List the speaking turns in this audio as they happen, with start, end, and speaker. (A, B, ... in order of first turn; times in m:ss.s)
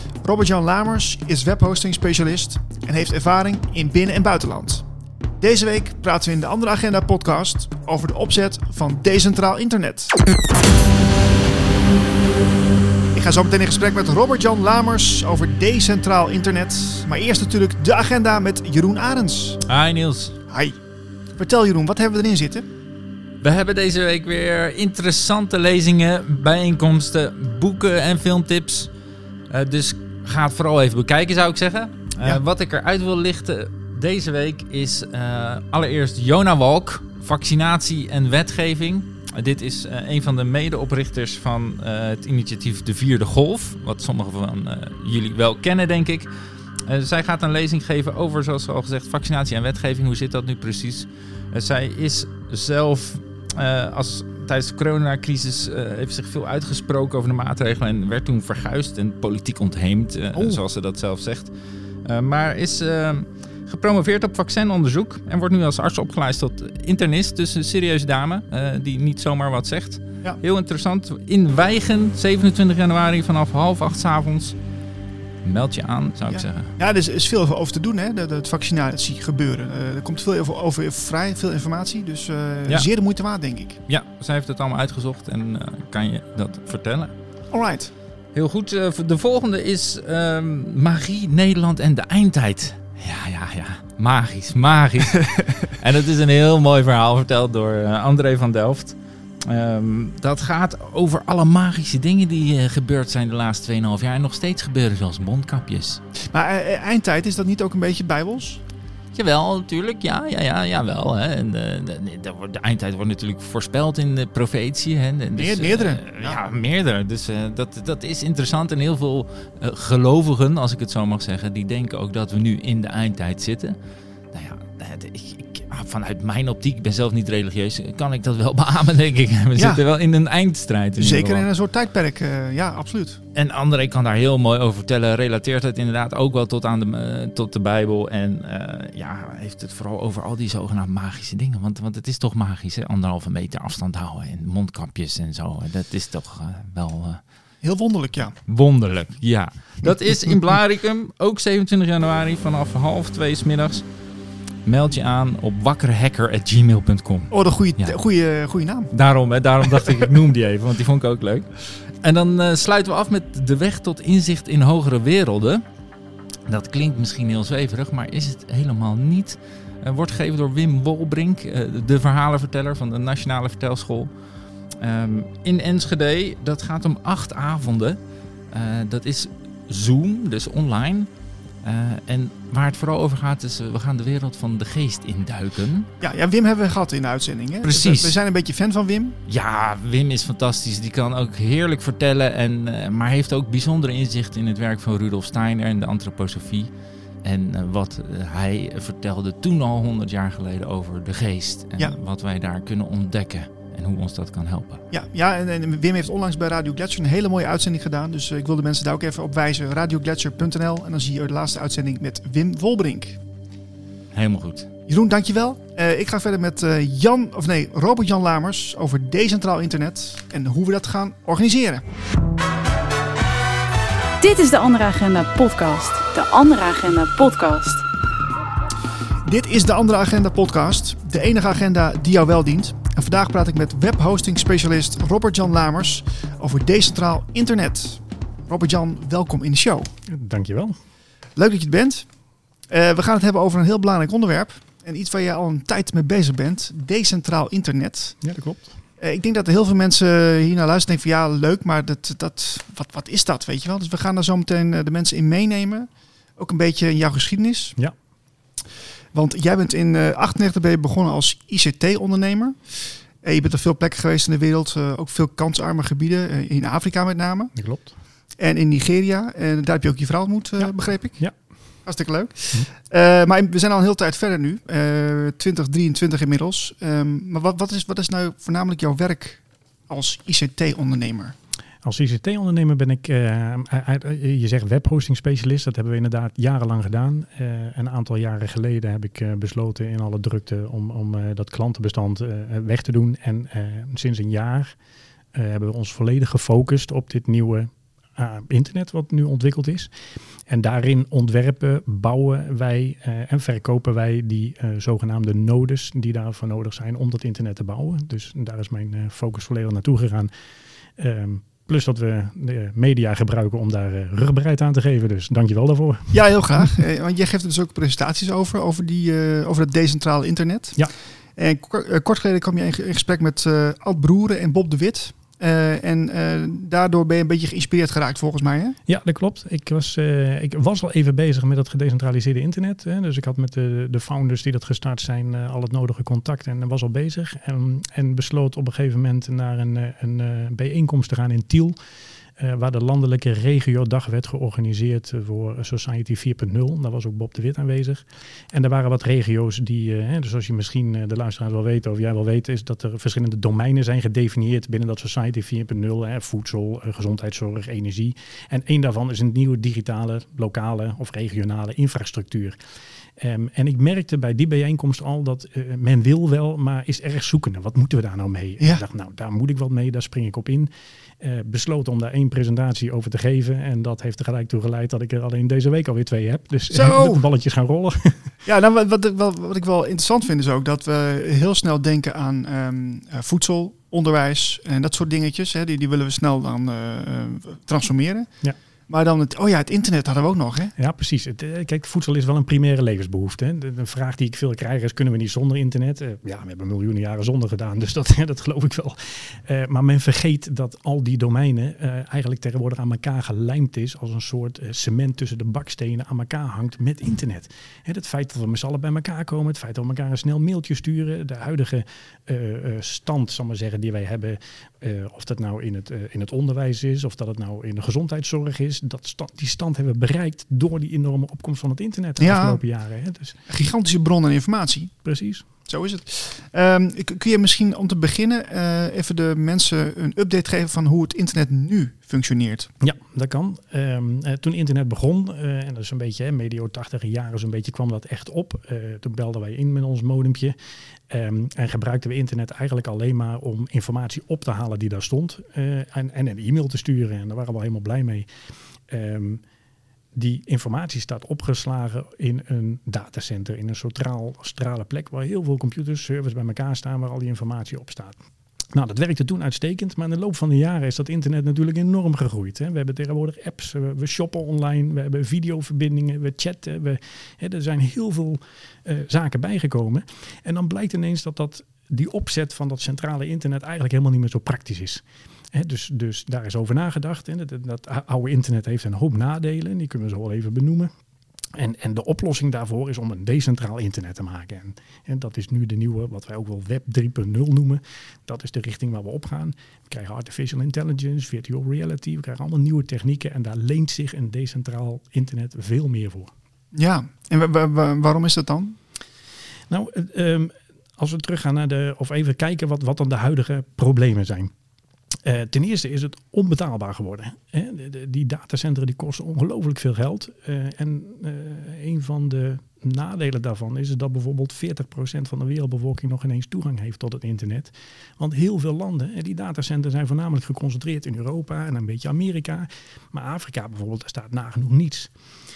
0:00.2-0:04.8 A
0:05.4-0:10.2 A
0:13.1-0:19.6 A
0:19.7-0:20.4 B
0:20.5-0:20.8 A
0:21.4-0:22.7 A
0:23.4-0:28.9 B
0:29.5-0:46.3 B
0:46.8-1:01.5 B
1:00.3-1:00.6 A
1:02.0-1:14.6 B
1:15.4-1:16.7 B
1:16.3-1:23.8 A
1:23.9-1:27.1 B
1:27.5-1:27.9 A
1:28.3-1:46.0 B
1:46.2-1:48.6 A
1:49.1-2:03.8 B
1:55.4-1:56.4 A
2:04.3-2:11.4 B
2:09.6-2:09.8 A
2:11.0-2:13.2 A
2:13.3-2:27.2 B
2:27.6-2:28.4 A
2:28.5-2:33.8 B
2:34.6-2:38.0 B
2:37.3-2:38.9 A
2:38.9-2:45.6 B
2:46.5-2:54.1 B
2:54.8-2:58.0 B
2:58.5-3:01.1 B
3:01.6-3:05.9 B
3:06.0-3:09.2 A
3:07.6-3:08.2 B
3:09.3-3:16.7 B
3:17.2-3:24.8 B
3:24.9-3:33.2 A
3:34.1-3:34.7 B
3:34.9-3:41.8 A
3:44.2-3:47.8 C
3:49.2-3:59.9 A
4:00.1-4:00.8 D
4:01.4-4:02.1 A
4:02.7-4:08.2 A
4:08.2-4:08.7 D
4:09.0-4:17.8 A
4:19.1-4:27.5 A
4:27.6-4:27.9 D
4:28.4-4:31.2 A
4:30.6-4:31.4 D
4:31.8-4:41.4 A
4:41.8-4:54.7 D
4:55.3-4:59.9 D
5:00.5-5:10.3 D
5:11.0-5:16.7 D
5:16.1-5:28.8 A
5:28.8-5:41.8 D
5:42.4-6:02.6 D
6:03.2-6:18.3 D
6:16.7-6:17.2 A
6:18.4-6:28.3 A
6:28.9-6:30.7 A
6:30.8-7:03.4 D
7:02.2-7:02.6 A
7:03.5-7:04.9 A
7:05.0-7:05.4 D
7:05.6-7:12.7 A
7:12.8-7:20.6 D
7:21.1-7:28.3 D
7:28.9-7:29.4 D
7:30.1-7:38.2 D
7:38.7-8:00.9 D
8:01.5-8:16.3 D
8:16.7-8:18.8 A
8:19.7-8:24.5 D
8:25.2-8:45.1 D